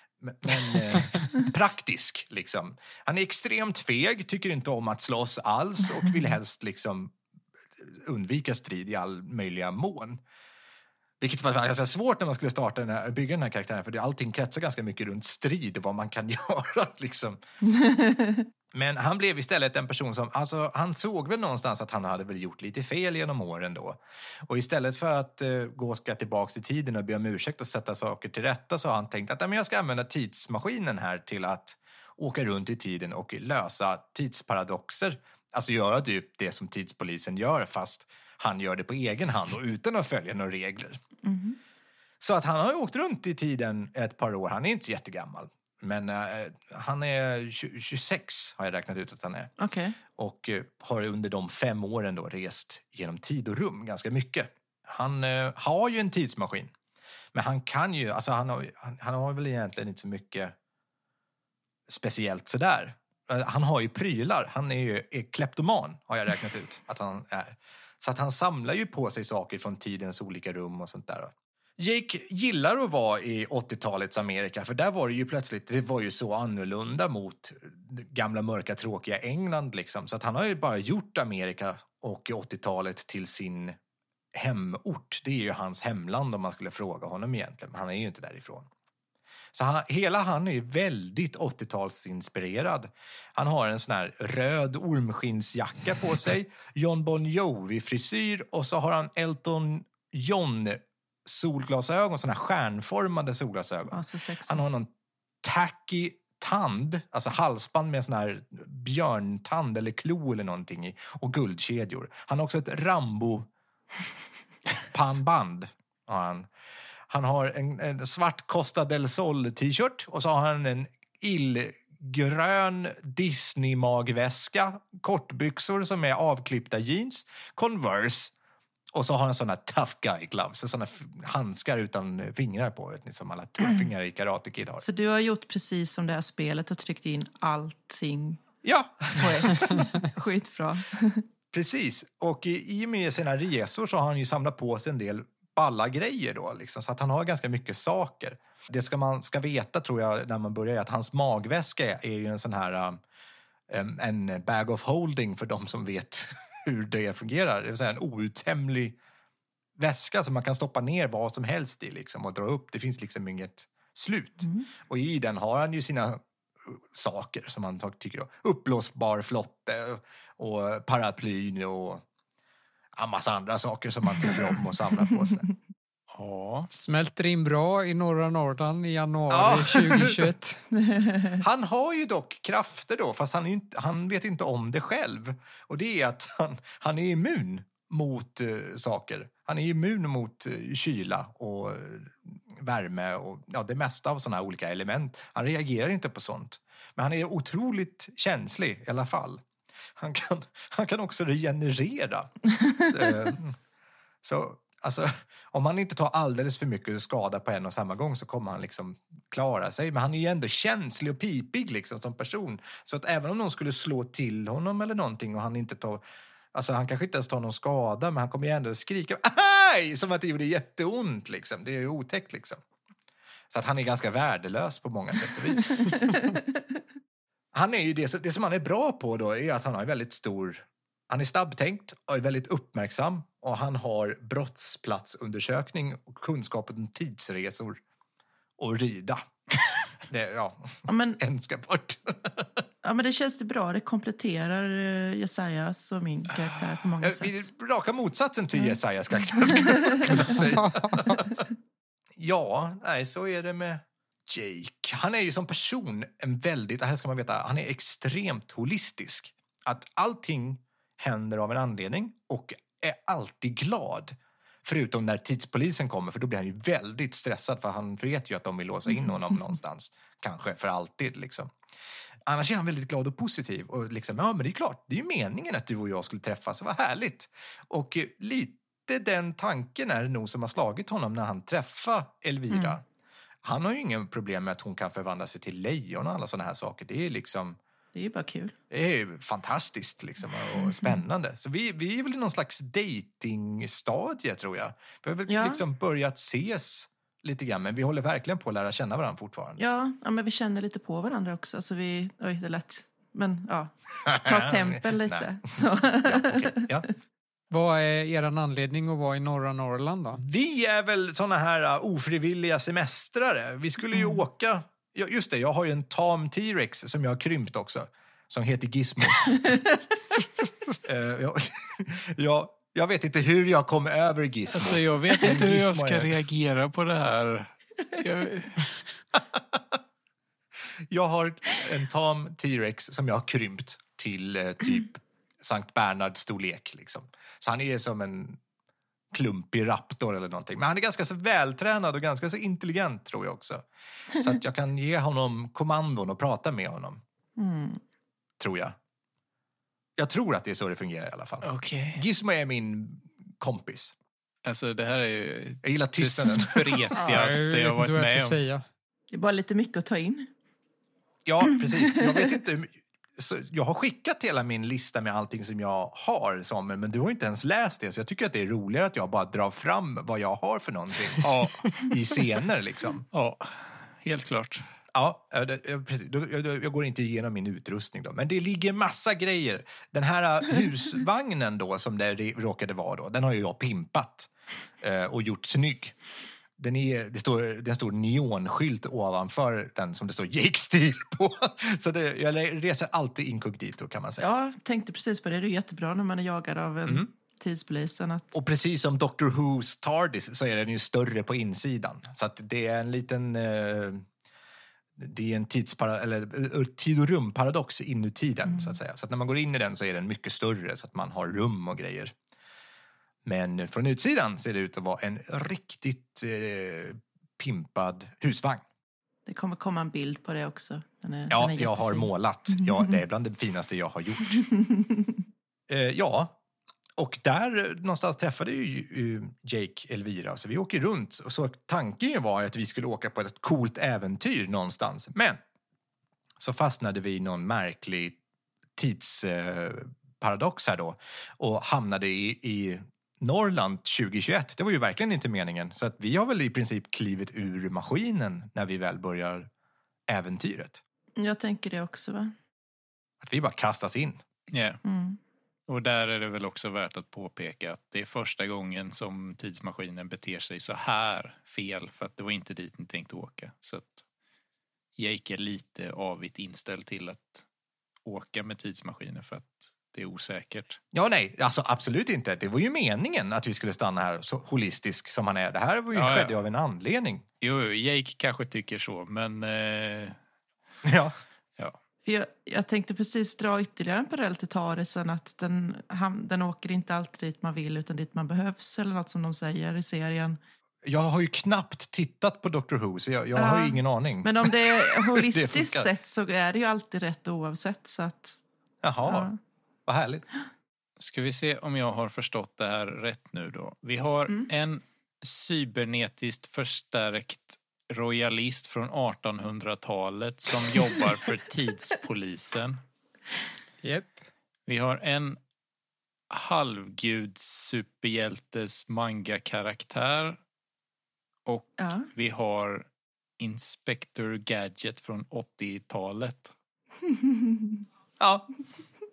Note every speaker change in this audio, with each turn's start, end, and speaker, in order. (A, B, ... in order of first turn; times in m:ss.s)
0:00.2-0:07.1 A
0:07.8-0:10.2 A
0:11.2-0:17.4 A
0:17.6-0:18.5 B
0:18.7-0:41.0 A
0:41.2-0:41.6 B
0:42.2-0:49.5 A
0:49.6-0:50.0 B
0:50.2-0:56.7 A
0:57.3-1:00.5 A
1:01.9-1:23.8 A
1:24.3-1:28.7 A
1:29.5-1:44.9 A
1:43.9-1:44.6 B
1:45.4-1:53.5 A
1:54.9-1:56.5 A
1:57.1-2:08.3 A
2:08.9-2:14.8 A
2:14.8-2:18.4 B
2:18.6-2:19.7 A
2:19.2-2:21.2 B
2:21.5-2:33.0 A
2:33.7-2:39.0 A
2:39.8-2:52.0 A
2:53.0-2:55.4 A
2:56.1-2:56.7 C
2:56.7-3:00.6 D
2:59.3-3:00.3 A
3:00.8-3:01.4 B
3:01.4-3:19.4 A
3:20.0-3:22.3 A
3:22.6-3:22.9 B
3:22.9-3:23.6 A
3:24.2-3:36.0 A
3:36.5-3:42.6 A
3:43.5-3:46.2 A
3:45.7-3:46.4 B
3:47.5-3:57.8 A
3:58.6-3:59.3 A
4:00.1-4:02.6 A
4:00.9-4:01.2 B
4:02.8-4:07.4 B
4:07.0-4:11.4 A
4:09.4-4:10.4 B
4:10.6-4:11.1 D
4:12.2-4:31.5 A
4:32.2-4:42.8 A
4:42.5-4:42.8 B
4:43.4-4:47.6 A
4:47.9-4:48.5 B
4:48.7-4:59.6 A
4:55.3-4:55.6 B
4:59.6-5:06.6 B
5:04.0-5:06.9 A
5:07.5-5:10.2 D
5:10.2-5:19.6 A
5:20.8-5:26.2 A
5:24.5-5:28.8 C
5:30.9-5:38.4 A
5:39.1-5:47.0 A
5:47.4-5:47.8 B
5:48.4-5:48.8 A
5:50.0-5:53.9 A
5:51.4-5:52.0 C
5:54.4-5:58.4 C
5:55.6-5:56.9 A
5:57.0-5:58.6 D
5:59.1-6:00.3 B
6:01.2-6:13.1 A
6:01.6-6:02.0 B
6:11.2-6:11.7 C
6:13.1-6:14.6 C
6:14.9-6:24.3 A
6:24.8-6:26.0 A
6:26.6-6:34.3 A
6:34.2-6:38.3 B
6:38.3-6:44.0 A
6:45.0-6:52.1 A
6:53.2-6:58.6 A
6:59.2-7:02.9 B
7:01.3-7:04.4 A
7:04.3-7:05.2 B
7:05.7-7:06.4 A
7:07.0-7:15.4 A
7:16.4-7:18.2 A
7:18.8-7:29.5 A
7:30.1-7:30.8 A
7:31.2-7:32.3 B
7:33.2-7:34.2 A
7:34.5-7:34.8 C
7:34.8-7:35.2 B
7:35.7-7:44.0 C
7:45.0-7:47.4 C
7:48.0-7:50.8 C
7:50.9-7:57.2 A
7:55.9-7:56.3 C
7:57.4-8:00.2 C
8:00.8-8:01.1 A
8:02.0-8:10.4 B
8:10.8-8:15.9 A
8:13.4-8:18.4 B
8:18.8-8:19.3 A
8:19.0-8:19.4 B
8:19.9-8:20.2 A
8:21.0-8:32.8 C
8:33.8-8:34.2 D
8:34.7-8:35.4 C
8:36.3-8:40.4 C
8:41.4-8:42.8 C
8:41.8-8:42.1 B
8:43.4-8:46.5 C
8:47.0-8:47.8 B
8:48.2-8:48.5 A